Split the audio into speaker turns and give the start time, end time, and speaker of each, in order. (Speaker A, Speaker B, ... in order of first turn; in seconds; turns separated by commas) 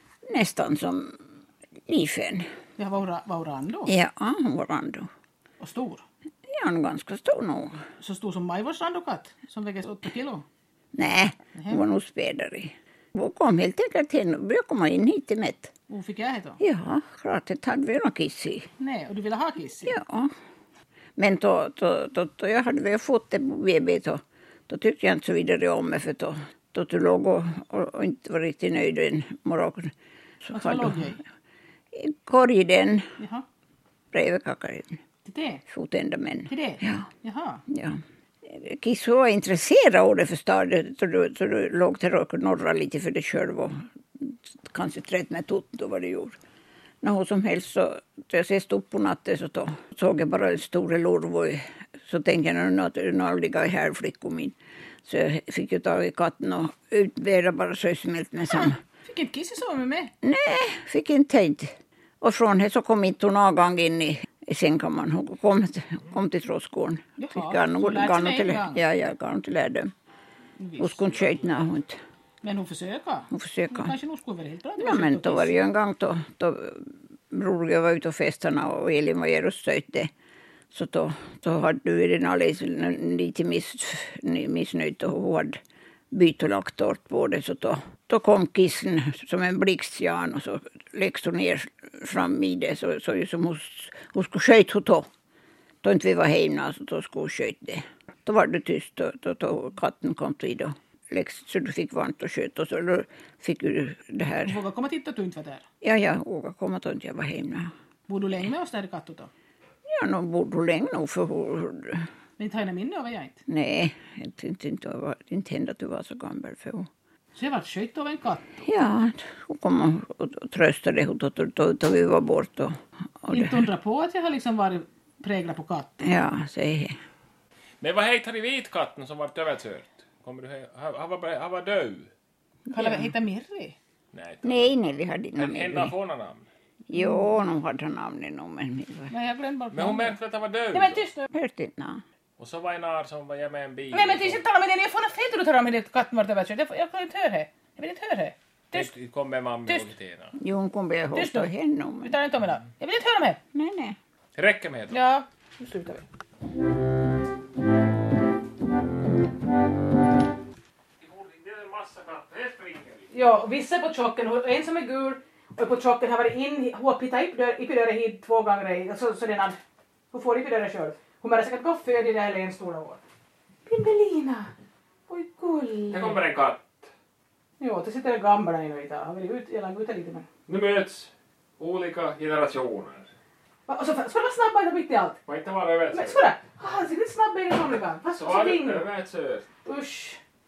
Speaker A: 0.3-1.1, Speaker A: 1.9-2.5, Speaker B: 2.8-3.9, Speaker A: 3.9-5.1, Speaker B: 5.6-6.0, Speaker A: 6.5-7.8, Speaker B: 8.0-10.4, Speaker A: 10.9-15.7, Speaker B: 11.5-11.8, Speaker B: 15.9-16.6, Speaker A: 16.6-18.7, Speaker B: 18.8-19.9, Speaker A: 19.8-20.3, Speaker A: 21.2-29.9, Speaker A: 30.4-31.1, Speaker B: 30.5-31.2, Speaker A: 31.9-33.0, Speaker B: 33.2-33.4, Speaker A: 34.1-35.0, Speaker B: 35.2-35.6, Speaker A: 35.7-37.1, Speaker B: 36.5-37.6, Speaker A: 37.7-46.4, Speaker A: 47.0-58.8, Speaker B: 58.5-60.1, Speaker A: 60.2-69.9, Speaker B: 67.2-68.8, Speaker B: 70.6-71.0, Speaker A: 70.8-72.0, Speaker B: 72.4-75.6, Speaker A: 73.3-73.9, Speaker A: 74.8-80.1, Speaker A: 80.7-85.6, Speaker A: 86.1-95.1, Speaker A: 95.8-104.6, Speaker B: 104.4-105.6, Speaker A: 105.8-107.7, Speaker B: 108.1-109.3, Speaker A: 109.9-112.0, Speaker B: 112.4-113.4, Speaker A: 113.5-116.9, Speaker B: 117.3-118.6, Speaker A: 118.6-123.6, Speaker B: 123.3-126.0, Speaker A: 126.0-127.0, Speaker C: 127.8-132.1, Speaker A: 132.7-133.1, Speaker B: 132.7-133.8, Speaker C: 134.1-134.7, Speaker A: 134.4-135.9, Speaker C: 135.3-136.4, Speaker A: 136.9-139.1, Speaker B: 136.9-137.2, Speaker B: 139.1-140.1, Speaker C: 139.7-141.1, Speaker B: 140.7-141.3, Speaker A: 141.3-142.0, Speaker C: 142.4-144.4, Speaker B: 143.9-148.9, Speaker C: 148.7-150.3, Speaker A: 150.4-152.1, Speaker B: 151.1-151.5, Speaker B: 152.0-153.4, Speaker A: 153.5-153.9, Speaker C: 154.3-155.0, Speaker B: 154.9-156.0, Speaker C: 161.0-163.1, Speaker B: 163.1-169.6, Speaker B: 170.1-173.0, Speaker B: 173.7-174.5, Speaker B: 175.1-176.2, Speaker C: 175.9-176.9, Speaker B: 177.6-180.2, Speaker C: 180.5-183.1, Speaker B: 183.7-185.2, Speaker C: 185.2-186.2, Speaker B: 185.9-188.8, Speaker C: 188.2-189.4, Speaker B: 189.6-190.2